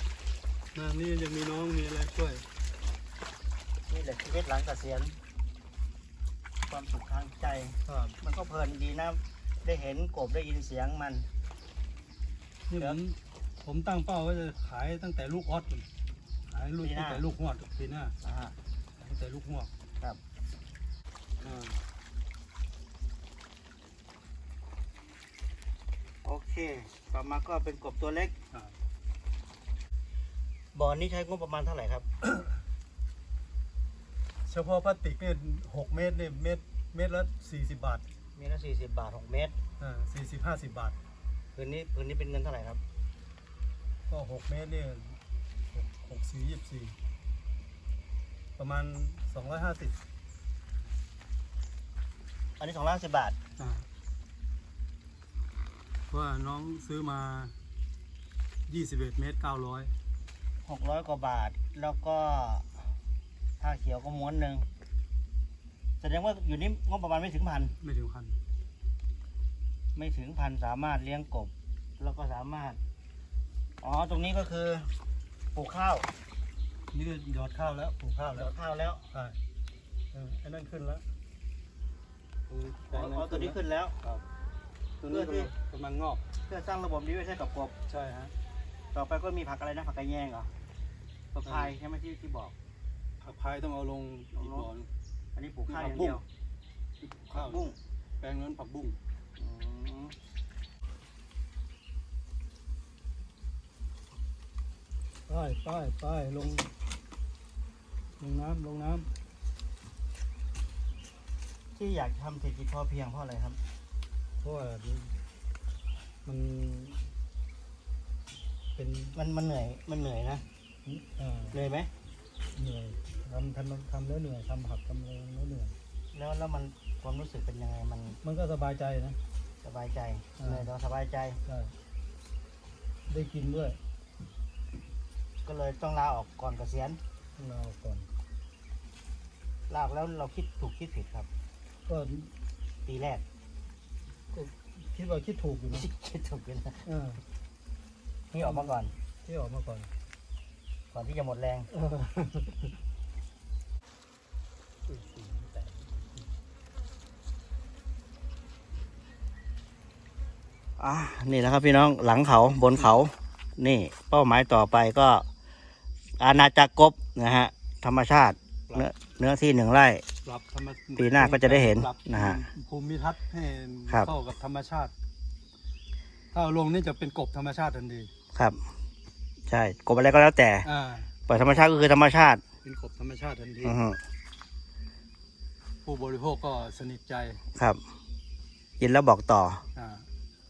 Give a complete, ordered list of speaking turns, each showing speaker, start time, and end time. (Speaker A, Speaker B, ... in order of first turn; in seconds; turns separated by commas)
Speaker A: 0.7-2.4, Speaker B: 3.9-5.2, Speaker B: 6.7-11.3, Speaker A: 7.8-8.2, Speaker A: 12.7-15.9, Speaker A: 16.5-18.1, Speaker B: 16.8-17.2, Speaker B: 18.2-18.6, Speaker A: 19.0-19.7, Speaker A: 21.4-21.8, Speaker B: 26.2-28.3, Speaker B: 30.7-32.0, Speaker A: 32.2-32.5, Speaker A: 34.5-38.0, Speaker B: 38.4-39.6, Speaker A: 39.8-41.0, Speaker B: 41.5-42.8, Speaker A: 44.1-45.2, Speaker A: 45.7-47.0, Speaker A: 48.6-50.0, Speaker B: 52.6-53.4, Speaker A: 53.6-53.9, Speaker A: 56.1-57.5, Speaker A: 58.7-59.9, Speaker B: 60.6-62.7, Speaker B: 63.6-64.7, Speaker B: 66.0-67.8, Speaker A: 67.8-68.4, Speaker B: 69.9-72.8, Speaker B: 73.8-74.9, Speaker B: 75.5-76.1, Speaker A: 76.9-78.5, Speaker B: 78.3-79.1, Speaker A: 79.1-79.4, Speaker A: 80.1-81.0, Speaker A: 82.5-84.2, Speaker B: 82.9-84.0, Speaker A: 85.0-86.2, Speaker B: 85.1-85.5, Speaker B: 86.5-87.7, Speaker A: 87.9-88.3, Speaker B: 88.9-90.5, Speaker B: 91.3-92.5, Speaker A: 91.4-91.8, Speaker A: 93.2-94.9, Speaker B: 94.4-94.7, Speaker B: 95.3-96.2, Speaker A: 95.7-96.2, Speaker A: 97.3-99.0, Speaker B: 97.3-97.8, Speaker B: 99.4-100.2, Speaker A: 105.3-106.7, Speaker A: 108.2-109.1, Speaker B: 111.8-113.6, Speaker A: 114.4-115.2, Speaker A: 116.2-117.0, Speaker A: 118.8-119.2, Speaker B: 119.1-120.4, Speaker A: 120.8-121.6, Speaker B: 121.5-121.9, Speaker A: 122.5-125.8, Speaker B: 126.1-128.2, Speaker A: 128.2-129.2, Speaker B: 129.6-131.4, Speaker A: 130.4-130.7, Speaker A: 131.4-131.7, Speaker A: 133.1-133.8, Speaker B: 135.4-137.0, Speaker A: 137.4-138.1, Speaker B: 139.7-141.3, Speaker A: 141.9-142.3, Speaker B: 142.8-143.2, Speaker A: 144.3-145.9, Speaker B: 145.7-146.9, Speaker A: 146.9-147.2, Speaker B: 148.3-148.9, Speaker A: 148.4-149.9, Speaker B: 150.9-151.7, Speaker A: 151.7-152.7, Speaker A: 154.9-156.2, Speaker B: 160.8-165.2, Speaker B: 166.2-170.0, Speaker A: 170.2-174.9, Speaker B: 171.0-172.4, Speaker A: 176.3-178.1, Speaker B: 179.5-180.7, Speaker A: 180.6-181.1, Speaker B: 181.3-182.4, Speaker A: 182.6-183.8, Speaker B: 183.6-184.0, Speaker A: 185.8-187.4, Speaker B: 188.8-189.6, Speaker A: 189.8-190.1